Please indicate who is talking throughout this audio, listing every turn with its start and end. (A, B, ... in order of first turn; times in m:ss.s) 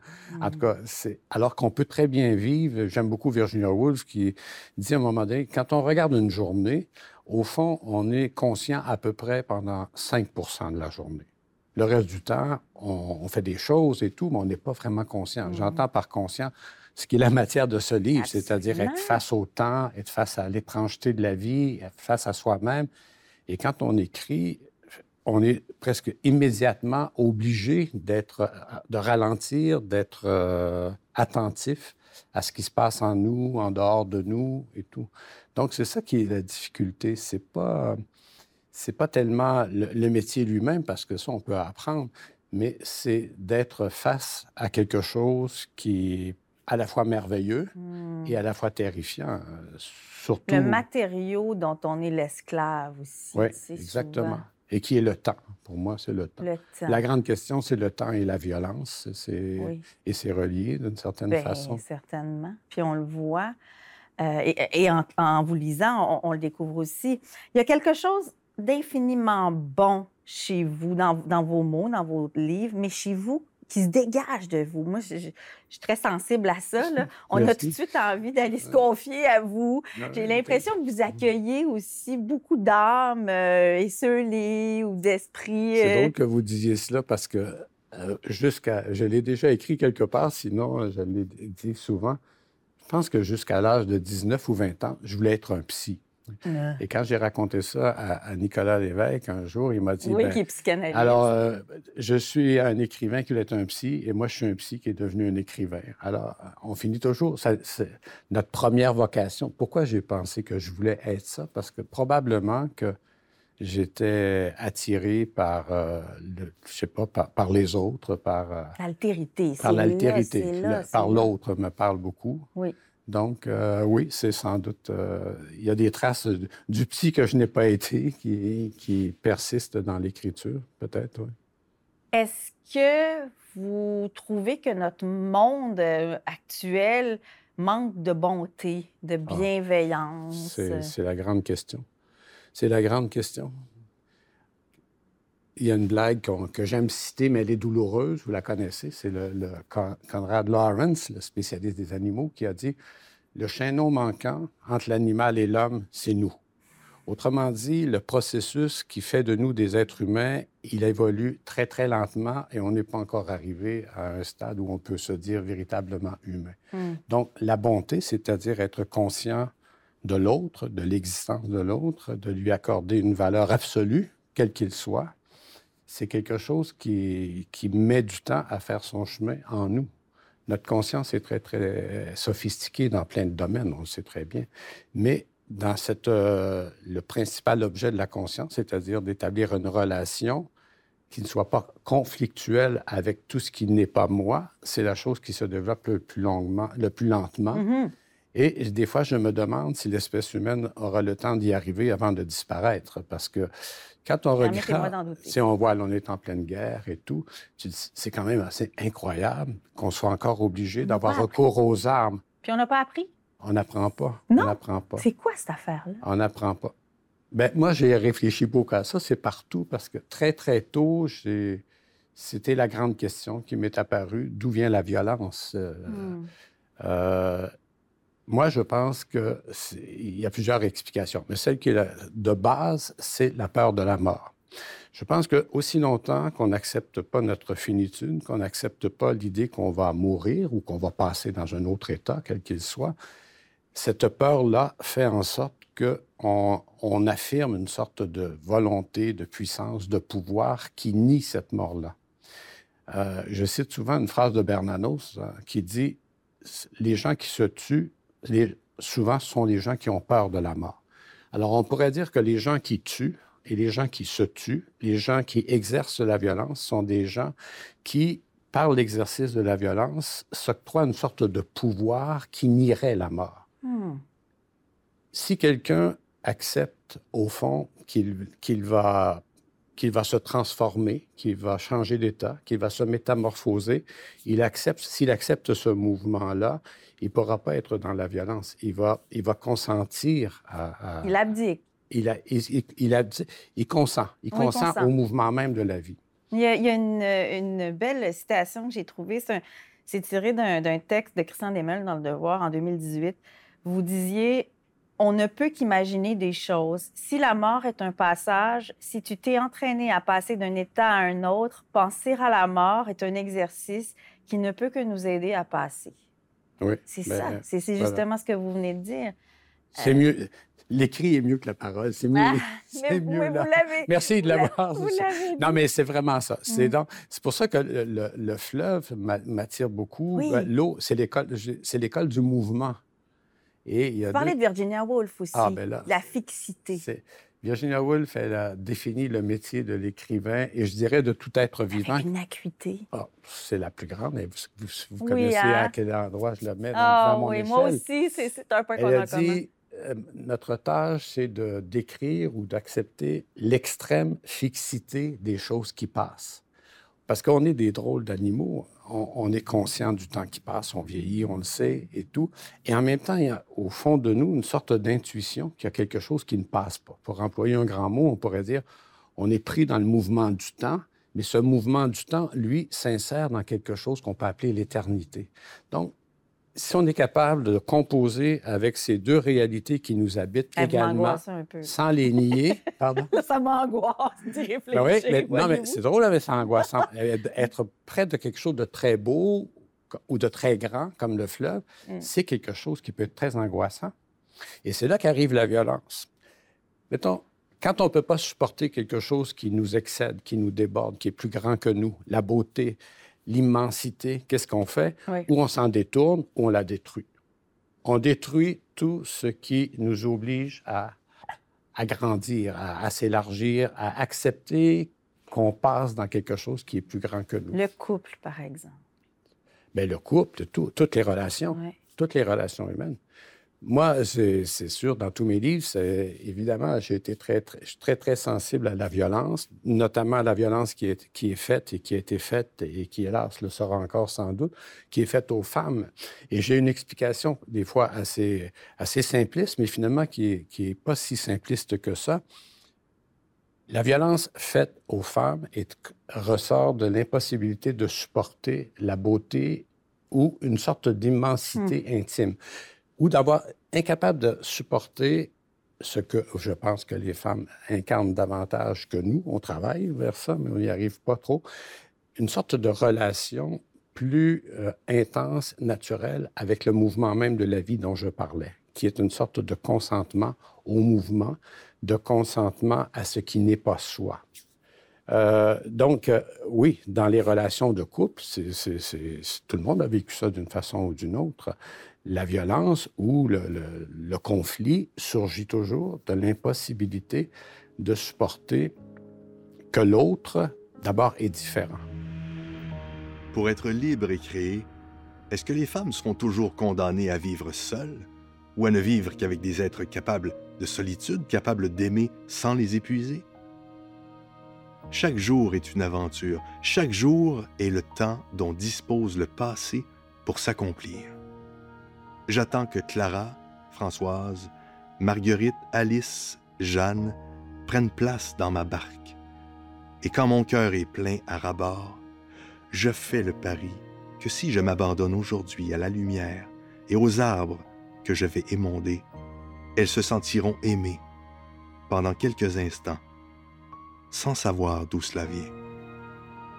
0:00.3-0:00.6 A
0:00.3-0:22.9 B
0:15.4-0:15.8 A
0:18.1-0:19.2 A
0:23.5-0:24.7 B
0:25.2-0:38.0 B
0:38.7-0:47.7 B
0:47.8-0:48.4 A
0:48.2-0:50.8 B
0:50.5-0:54.4 A
0:53.3-1:01.8 B
0:56.4-0:57.0 A
0:59.6-0:59.8 A
1:01.3-1:03.6 A
1:04.2-1:26.1 A
1:17.0-1:17.8 B
1:19.9-1:20.7 B
1:25.8-1:32.2 B
1:32.8-1:36.0 B
1:36.4-1:36.8 A
1:36.8-1:53.0 B
1:40.0-1:41.3 A
1:53.6-1:58.8 B
1:58.8-2:01.3 A
1:59.6-2:02.5 B
2:03.1-2:11.3 B
2:12.1-2:20.9 A
2:20.3-2:21.9 B
2:22.5-2:23.5 B
2:25.6-2:32.8 B
2:33.3-2:36.4 B
2:37.1-2:49.5 B
2:46.7-2:47.0 A
2:50.0-2:55.1 B
2:55.9-2:59.9 B
3:00.5-3:10.5 B
3:11.1-3:17.6 B
3:17.5-3:17.9 A
3:18.3-3:23.5 B
3:24.0-3:32.2 B
3:24.4-3:25.4 A
3:30.8-3:31.4 A
3:32.4-3:33.1 A
3:33.4-3:35.0 B
3:34.3-3:36.0 A
3:36.0-3:36.7 B
3:37.3-3:41.6 B
3:42.1-3:46.2 B
3:45.9-3:46.3 A
3:46.8-3:47.5 B
3:48.3-3:54.4 B
3:54.9-4:02.9 B
4:03.7-4:11.9 B
4:12.9-4:33.4 B
4:33.6-4:34.0 A
4:35.1-4:39.2 B
4:39.8-4:51.2 B
4:51.0-4:51.6 A
4:51.9-4:56.0 B
4:54.3-4:54.9 A
4:56.3-5:16.0 A
5:16.6-5:18.0 B
5:16.9-5:19.1 A
5:19.8-5:32.8 B
5:19.8-5:20.0 A
5:22.1-5:25.6 A
5:26.5-5:26.7 A
5:30.1-5:30.5 A
5:33.6-5:34.3 B
5:34.1-5:36.8 A
5:35.3-5:36.0 B
5:36.8-5:42.1 B
5:41.7-5:42.9 A
5:42.9-5:47.8 B
5:45.0-5:45.7 A
5:46.7-5:49.4 A
5:48.8-5:56.4 B
5:57.1-6:08.6 B
6:09.2-6:15.9 B
6:16.5-6:23.1 B
6:20.6-6:25.8 A
6:24.7-6:33.9 B
6:34.6-6:36.1 B
6:36.9-6:47.1 B
6:47.8-6:51.0 B
6:51.8-6:57.6 B
6:57.5-6:58.8 A
6:59.7-7:03.0 B
7:03.6-7:22.2 B
7:23.7-7:32.4 B
7:33.0-7:41.4 B
7:42.2-7:54.2 B
7:55.1-8:01.5 B
8:02.0-8:08.8 B
8:09.7-8:11.8 B
8:13.3-8:14.7 C
8:15.3-8:23.2 C
8:24.9-8:31.1 C
8:32.3-8:39.2 C
8:40.0-8:42.0 C
8:42.7-8:49.0 C
8:49.8-8:51.0 C
8:51.9-8:53.0 C
8:54.1-8:55.5 C